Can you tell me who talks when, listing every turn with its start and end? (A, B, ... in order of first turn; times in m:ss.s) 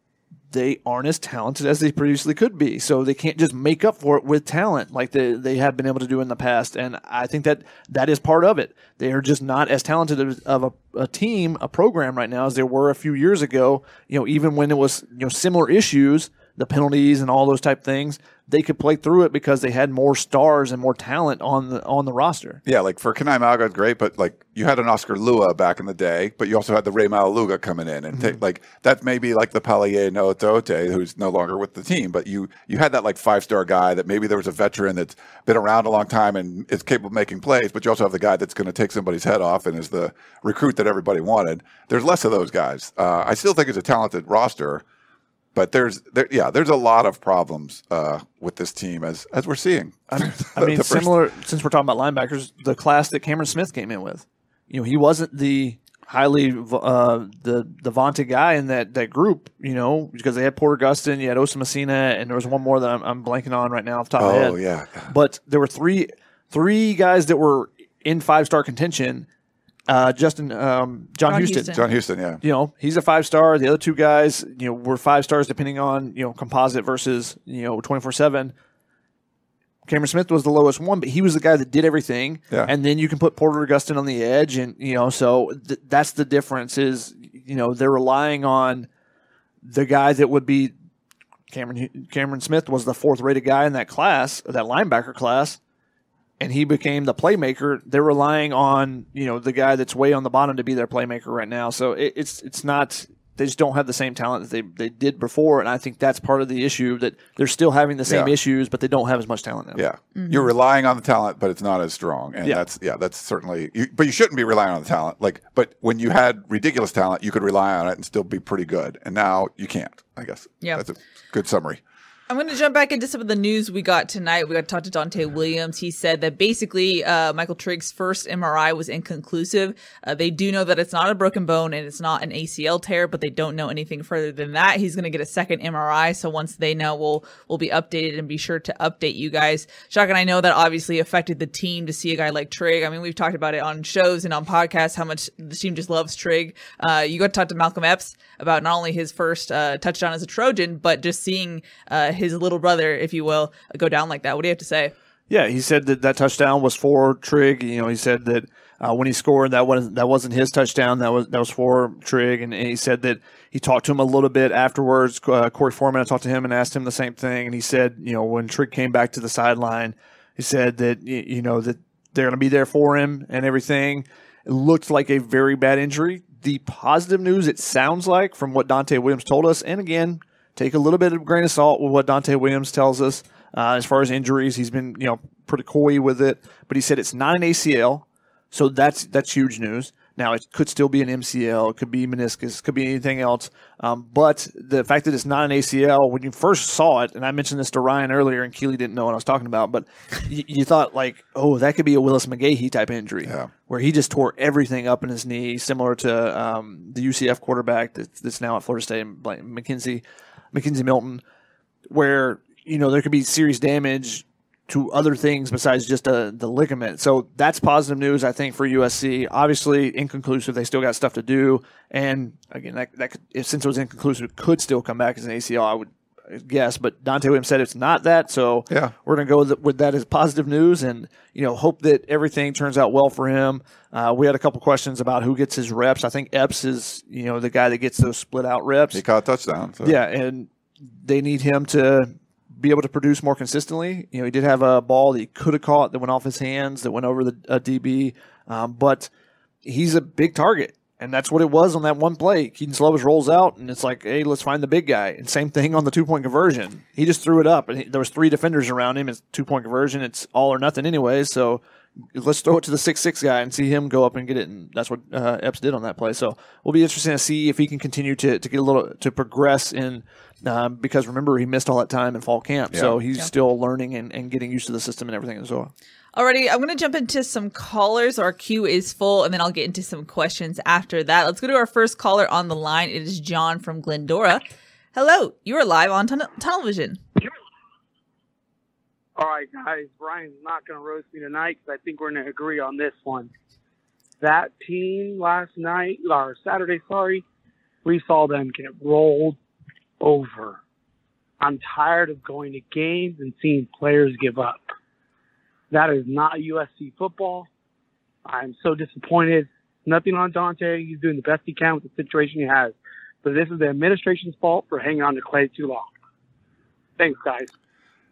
0:00.5-0:22.6 A
0:22.6-0:44.8 B
0:28.1-0:28.4 A
0:45.6-0:51.1 B
0:50.1-1:04.6 A
1:04.2-1:05.1 B
1:05.1-1:09.3 A
1:09.9-1:11.7 A
1:11.3-1:11.8 C
1:11.7-1:12.4 B
1:12.4-1:18.5 A
1:19.8-1:28.9 A
1:29.6-1:30.7 A
1:31.5-1:35.6 A
1:36.4-1:49.8 A
1:48.1-1:48.3 B
1:49.8-2:01.8 B
1:50.2-1:50.5 C
2:02.3-2:34.9 C
2:35.3-3:30.0 A
3:23.2-3:23.5 B
3:30.5-3:31.2 A
3:31.9-3:59.0 A
3:58.9-4:00.0 B
3:59.8-4:00.5 A
4:01.0-4:09.1 A
4:09.6-4:21.6 A
4:22.1-4:35.7 A
4:36.2-4:44.4 C
4:44.9-4:47.0 C
4:49.2-4:53.3 D
4:54.2-4:57.2 D
4:57.8-4:59.4 D
5:00.0-5:00.6 D
5:01.4-5:04.7 D
5:05.7-5:07.5 D
5:08.3-5:15.9 D
5:17.0-5:17.5 D